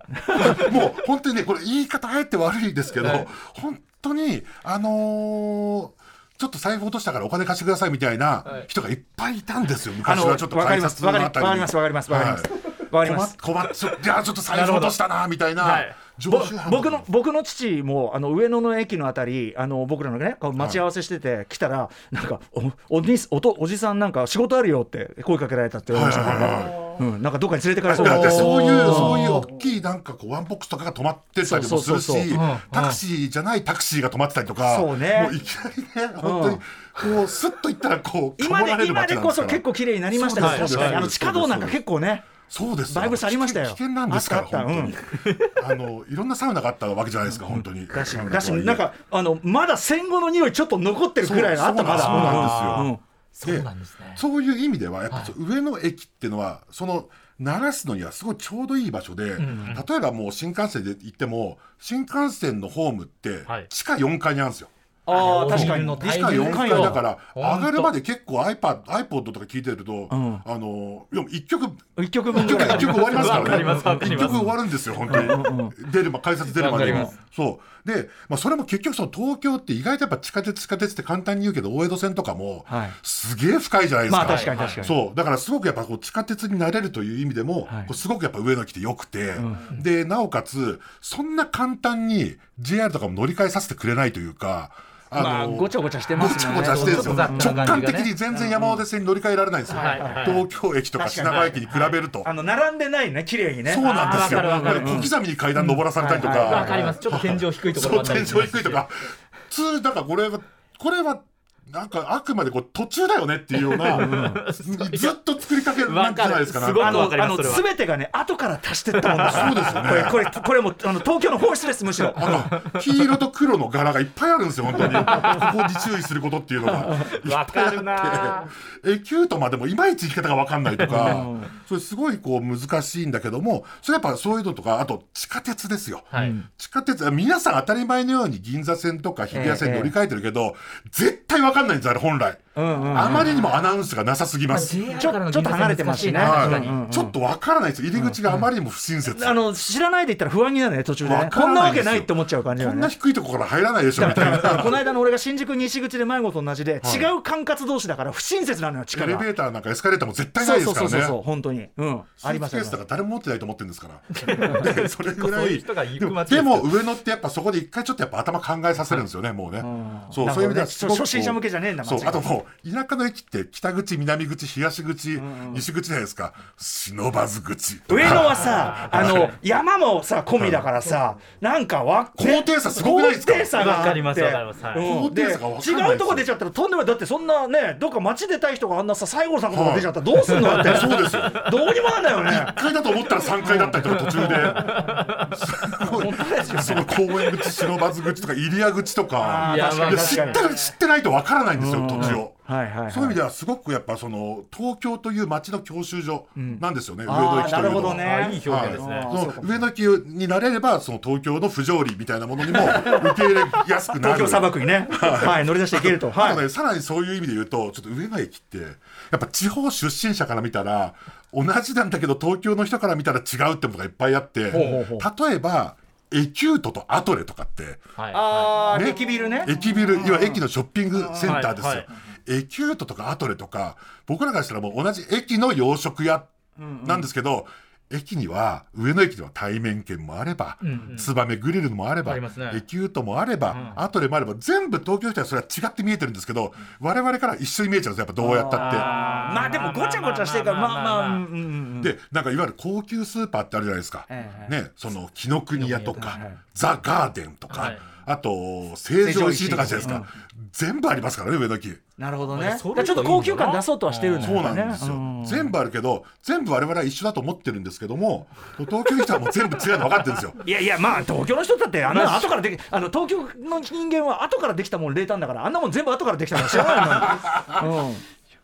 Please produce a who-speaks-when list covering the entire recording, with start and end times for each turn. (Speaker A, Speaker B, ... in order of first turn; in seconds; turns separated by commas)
Speaker A: 0.1-0.6, Speaker B: 0.3-17.1, Speaker C: 3.0-3.2, Speaker A: 10.0-13.3, Speaker C: 14.5-15.0, Speaker C: 15.6-15.9, Speaker A: 16.3-29.4, Speaker B: 20.6-20.8, Speaker B: 25.9-26.8, Speaker B: 27.9-41.8, Speaker C: 27.9-29.4, Speaker A: 31.4-32.4, Speaker C: 32.3-33.0, Speaker A: 34.6-35.4, Speaker A: 36.2-36.6, Speaker A: 38.4-42.2, Speaker C: 40.4-41.0, Speaker B: 42.5-48.9, Speaker A: 42.9-45.0, Speaker C: 45.2-45.5, Speaker A: 47.5-53.0, Speaker B: 51.2-52.9, Speaker C: 51.9-54.2, Speaker B: 53.4-64.7, Speaker C: 59.4-59.9, Speaker A: 65.0-67.0, Speaker C: 65.1-67.9, Speaker B: 65.2-102.3, Speaker A: 70.1-70.4, Speaker A: 72.0-74.5, Speaker C: 72.3-74.5, Speaker A: 75.0-75.8, Speaker C: 75.1-75.4, Speaker C: 76.5-77.1, Speaker A: 76.7-77.1, Speaker A: 82.7-83.0, Speaker A: 84.1-85.0, Speaker C: 84.2-84.8, Speaker A: 87.7-87.9, Speaker A: 89.4-89.7, Speaker A: 95.1-98.8, Speaker C: 96.2-98.1, Speaker C: 99.7-100.4, Speaker A: 99.7-100.4, Speaker A: 101.0-101.7, Speaker C: 101.3-102.0, Speaker A: 102.2-107.0, Speaker B: 103.6-117.2, Speaker C: 103.8-105.1, Speaker C: 106.2-108.8, Speaker C: 113.6-115.2, Speaker A: 113.9-114.4, Speaker C: 115.8-117.7, Speaker A: 116.8-122.3, Speaker C: 119.0-119.8, Speaker B: 119.2-120.2, Speaker B: 122.2-144.8, Speaker C: 122.2-122.9, Speaker C: 124.8-125.5, Speaker C: 126.7-128.5, Speaker C: 130.8-131.2, Speaker A: 130.8-131.5, Speaker A: 136.1-136.5, Speaker A: 139.3-139.9, Speaker A: 142.5-143.4, Speaker C: 142.9-143.5, Speaker C: 144.5-146.8, Speaker A: 144.7-147.2, Speaker B: 146.2-149.4, Speaker A: 149.1-152.9, Speaker B: 151.0-154.8, Speaker A: 153.9-159.3, Speaker B: 156.8-157.1, Speaker B: 158.9-161.2, Speaker A: 160.4-162.8, Speaker B: 162.2-179.3, Speaker C: 164.1-166.7, Speaker A: 169.6-172.3, Speaker A: 175.2-175.6, Speaker A: 177.9-192.6, Speaker C: 178.0-179.3, Speaker B: 180.4-180.7, Speaker B: 182.2-183.7, Speaker C: 183.5-184.9, Speaker B: 184.8-186.3, Speaker B: 189.5-191.4, Speaker C: 190.3-191.7, Speaker B: 192.2-227.9, Speaker C: 193.4-195.4, Speaker A: 193.4-194.9, Speaker A: 195.8-197.3, Speaker A: 199.2-200.5, Speaker C: 199.4-200.6, Speaker A: 201.6-203.2, Speaker A: 206.4-209.7, Speaker C: 207.6-209.1, Speaker A: 212.5-213.1, Speaker A: 213.9-216.4, Speaker A: 224.5-225.1, Speaker C: 224.5-224.8, Speaker C: 228.0-228.7, Speaker A: 228.1-230.4, Speaker B: 228.7-236.3, Speaker C: 231.2-231.9, Speaker A: 236.6-237.1, Speaker B: 236.8-248.9, Speaker C: 240.6-241.1, Speaker C: 242.0-242.6, Speaker C: 243.5-243.8, Speaker A: 248.2-251.9, Speaker C: 248.5-251.2, Speaker B: 251.8-261.8, Speaker A: 254.1-254.5, Speaker C: 255.6-256.0, Speaker A: 255.8-256.4, Speaker C: 257.5-257.8, Speaker A: 259.0-260.1, Speaker A: 262.0-265.5, Speaker C: 262.3-264.4, Speaker B: 264.2-270.4, Speaker A: 270.4-278.0, Speaker B: 276.4-277.6